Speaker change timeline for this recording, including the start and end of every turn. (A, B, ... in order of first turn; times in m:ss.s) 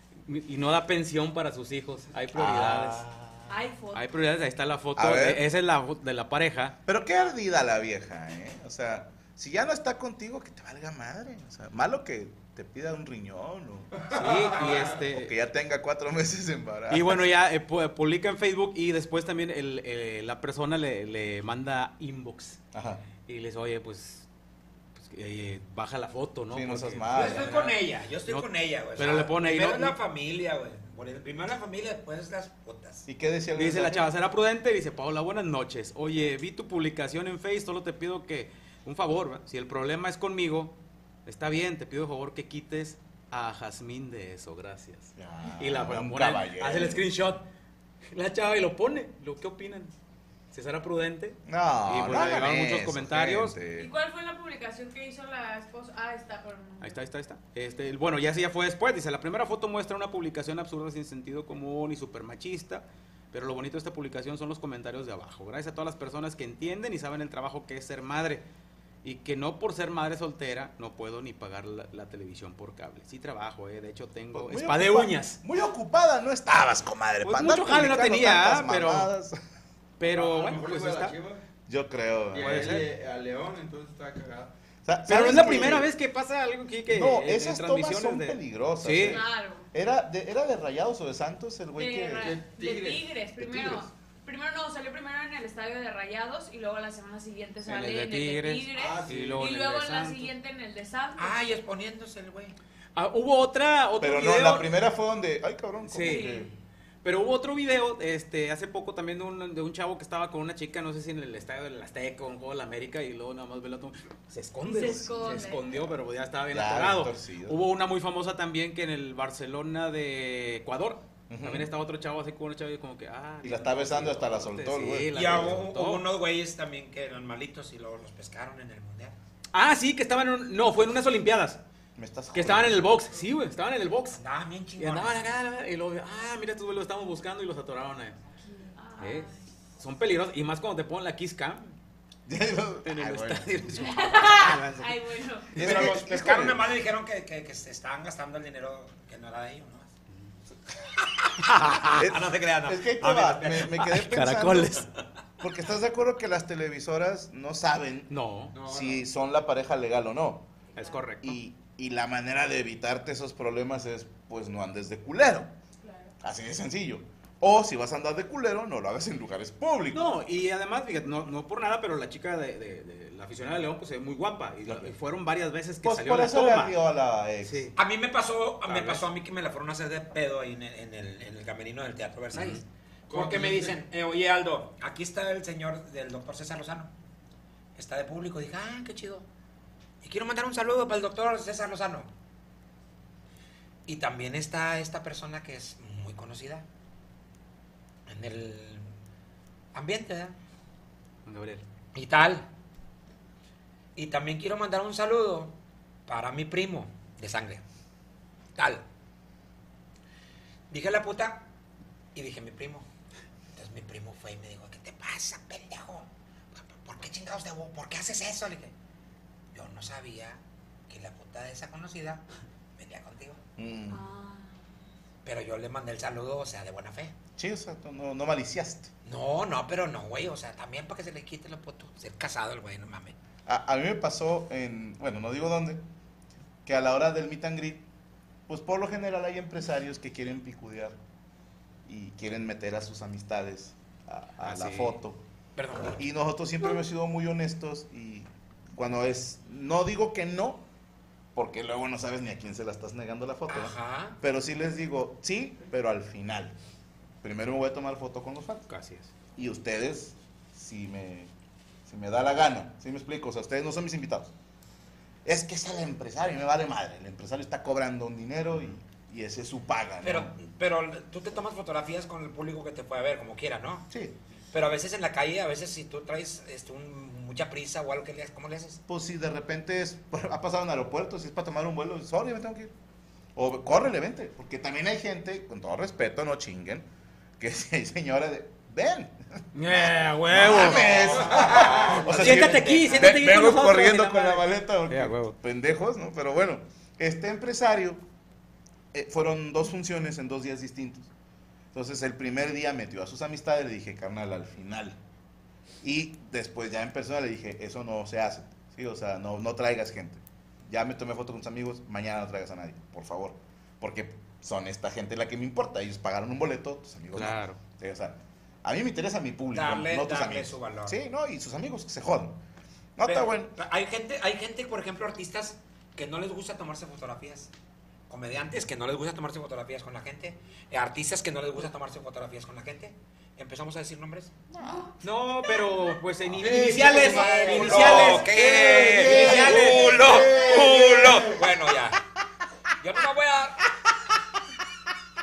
0:00.2-0:03.0 A
0:02.3-0:03.5 B
0:03.5-0:04.1 C
0:03.9-0:06.8 A
0:05.0-0:05.4 B
0:06.8-0:13.9 B
0:14.0-0:14.9 D
0:14.1-0:15.3 A
0:15.1-0:17.2 B
0:16.9-0:22.6 A
0:22.7-0:23.0 B
0:23.2-0:24.2 A
0:25.0-0:30.0 A
0:26.5-0:27.6 B
0:27.1-0:33.0 E
0:33.1-0:34.1 B
0:33.5-0:40.7 A
0:41.2-0:47.4 A
0:45.2-0:47.0 B
0:48.1-0:49.9 A
0:50.5-0:53.6 A
0:51.5-0:53.9 B
0:53.7-0:57.0 C
0:56.8-1:08.4 A
1:09.0-1:15.4 A
1:14.3-1:19.4 B
1:17.2-1:19.1 A
1:20.0-1:21.2 A
1:20.0-1:21.4 D
1:21.7-1:22.7 B
1:22.3-1:24.5 D
1:22.4-1:22.9 A
1:24.8-1:25.9 B
1:25.0-1:29.2 A
1:26.9-1:32.4 B
1:29.0-1:29.7 C
1:31.8-1:41.5 C
1:32.2-1:33.0 D
1:33.4-1:33.9 B
1:37.6-1:40.3 A
1:38.7-1:39.5 D
1:41.2-1:42.6 E
1:43.0-1:44.7 A
1:44.0-1:46.5 B
1:45.8-1:46.3 A
1:46.0-1:46.5 C
1:47.0-2:06.1 A
1:54.6-1:55.8 C
1:56.5-1:57.6 B
2:01.3-2:01.7 B
2:03.4-2:05.6 B
2:05.1-2:09.2 E
2:09.5-2:11.6 A
2:12.0-2:13.0 B
2:12.3-2:14.2 A
2:14.1-2:15.3 E
2:14.8-2:18.2 A
2:18.4-2:19.4 C
2:19.0-2:21.7 A
2:22.3-2:24.0 B
2:22.8-2:24.9 A
2:23.8-2:25.5 C
2:25.5-2:29.9 E
2:25.6-2:26.7 B
2:31.4-2:32.1 A
2:31.6-2:33.8 E
2:31.9-2:34.8 B
2:33.7-2:34.9 A
2:35.4-2:40.5 B
2:38.1-2:38.6 A
2:38.5-2:39.0 D
2:40.8-2:41.0 C
2:40.8-2:41.4 A
2:41.2-2:45.5 B
2:45.8-2:46.1 C
2:46.2-2:50.1 B
2:49.9-2:56.7 A
2:54.6-2:55.0 B
2:55.8-2:57.7 B
2:57.4-2:57.8 A
2:57.8-3:06.9 E
2:58.6-2:59.1 A
3:03.1-3:03.8 D
3:07.8-3:09.2 E
3:10.0-3:12.1 E
3:13.9-3:16.6 E
3:18.1-3:18.9 E
3:19.7-3:20.4 E
3:21.2-3:21.6 A
3:21.9-3:22.5 E
3:24.0-3:25.5 E
3:26.1-3:27.6 E
3:28.6-3:28.8 E
3:30.7-3:31.4 E
3:32.1-3:32.9 E
3:33.5-3:38.7 E
3:39.5-3:42.2 E
3:42.8-3:43.4 E
3:43.6-3:44.0 B
3:43.9-3:44.5 C
3:45.2-3:47.1 E
3:47.4-3:48.9 B
3:49.0-3:53.1 E
3:53.4-3:55.8 B
3:56.6-3:57.8 B
3:58.5-4:01.0 B
4:01.8-4:05.2 B
4:04.4-4:05.0 A
4:05.6-4:06.0 E
4:05.8-4:10.6 B
4:11.3-4:16.5 B
4:13.5-4:14.2 E
4:17.2-4:18.7 B
4:18.7-4:19.1 A
4:19.4-4:21.3 B
4:21.8-4:24.3 B
4:25.2-4:30.3 B
4:30.0-4:33.8 E
4:33.9-4:34.2 B
4:34.5-4:38.8 E
4:38.9-4:42.7 B
4:43.3-4:46.9 B
4:47.4-4:58.0 B
4:49.5-4:51.0 A
4:50.4-4:53.2 E
4:51.1-4:51.9 D
4:52.0-4:55.4 A
4:58.9-5:01.1 B
5:01.7-5:05.0 B
5:05.8-5:22.4 B
5:17.1-5:17.6 A
5:19.5-5:21.0 E
5:23.0-5:23.5 B
5:23.0-5:27.5 E
5:28.1-5:34.3 E
5:35.0-5:40.2 A
5:36.4-5:41.4 D
5:36.4-5:42.0 E
5:42.8-5:43.7 E